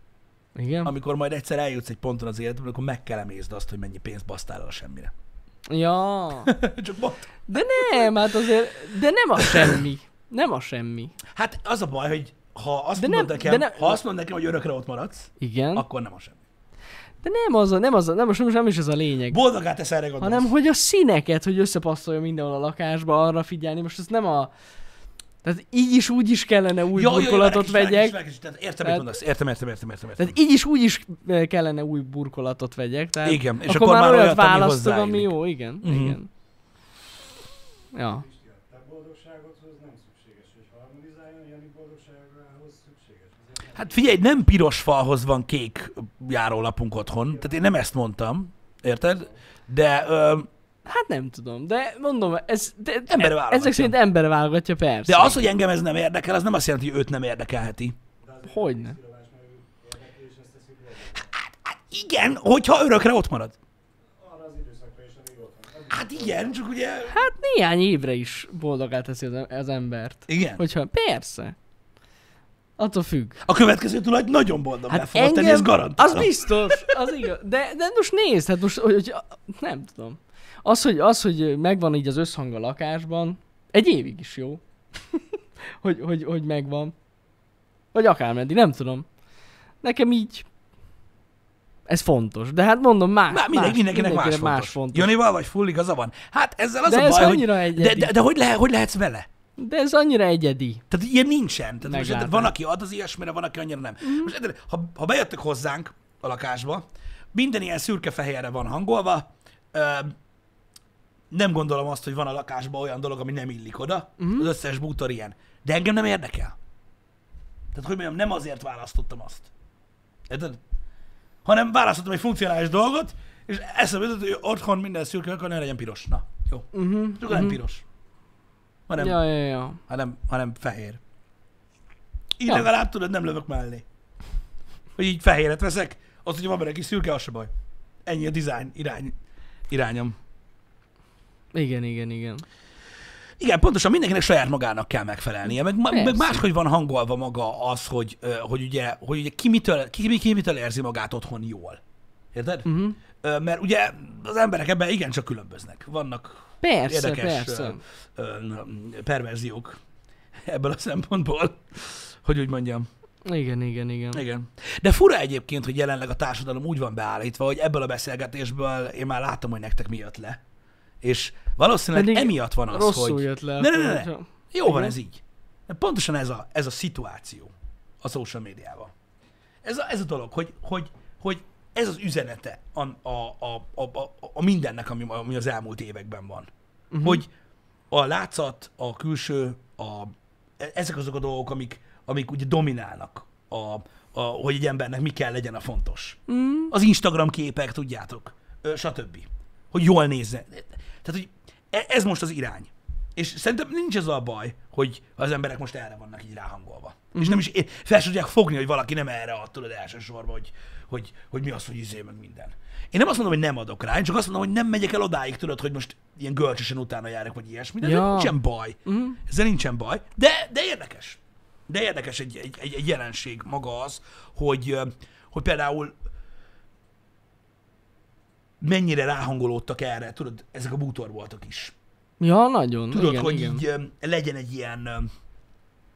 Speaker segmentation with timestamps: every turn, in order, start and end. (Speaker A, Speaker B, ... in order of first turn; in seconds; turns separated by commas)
Speaker A: 0.6-0.9, Speaker B: 0.8-5.1, Speaker A: 5.7-6.5, Speaker B: 6.5-8.3, Speaker A: 7.5-11.1, Speaker B: 9.4-9.8, Speaker B: 11.3-16.4, Speaker A: 13.0-14.0, Speaker A: 15.4-15.8, Speaker A: 17.2-19.4, Speaker B: 19.3-20.5, Speaker A: 20.2-24.5, Speaker A: 25.4-28.2, Speaker B: 26.9-30.4, Speaker A: 30.2-36.3, Speaker B: 33.2-36.2, Speaker A: 37.9-38.2, Speaker C: 38.0-44.2, Speaker B: 43.7-50.5, Speaker C: 47.2-47.6, Speaker C: 49.0-49.4, Speaker A: 50.9-55.4, Speaker B: 53.1-54.0, Speaker B: 55.1-58.0, Speaker C: 58.2-61.3, Speaker A: 58.5-59.0, Speaker B: 61.3-63.5, Speaker C: 64.2-66.6, Speaker B: 65.9-67.2, Speaker A: 67.1-71.5, Speaker B: 70.3-70.6, Speaker A: 72.8-73.4, Speaker B: 73.4-77.2, Speaker A: 74.9-85.2, Speaker A: 85.8-86.9, Speaker A: 87.9-89.0, Speaker A: 89.8-90.5, Speaker A: 91.9-95.1, Speaker B: 93.3-99.3, Speaker A: 96.8-98.1, Speaker A: 99.6-100.8, Speaker B: 100.9-110.1, Speaker A: 101.8-102.5, Speaker A: 104.0-104.3, Speaker B: 111.3-116.5, Speaker A: 114.2-114.5, Speaker B: 117.7-119.5, Speaker B: 120.3-120.6, Speaker B: 121.4-127.8, Speaker A: 126.7-127.6, Speaker B: 128.9-129.2, Speaker A: 129.0-129.8, Speaker B: 129.9-131.0, Speaker B: 132.3-133.8, Speaker B: 134.9-137.5, Speaker B: 138.0-139.2, Speaker B: 139.7-140.2, Speaker A: 141.5-142.4, Speaker B: 143.4-151.8, Speaker A: 145.9-146.4, Speaker B: 152.3-159.8, Speaker A: 152.6-153.0, Speaker A: 156.6-157.8, Speaker B: 160.4-162.9, Speaker A: 163.2-164.2, Speaker B: 164.1-170.4, Speaker B: 171.0-178.9, Speaker A: 171.9-174.9, Speaker B: 179.6-186.5, Speaker A: 186.9-187.2, Speaker B: 187.0-187.3, Speaker B: 187.9-226.0, Speaker A: 196.3-196.7, Speaker A: 207.1-207.4, Speaker A: 217.8-218.3, Speaker A: 218.8-219.2, Speaker B: 228.6-231.7, Speaker A: 232.2-233.6, Speaker B: 232.9-235.1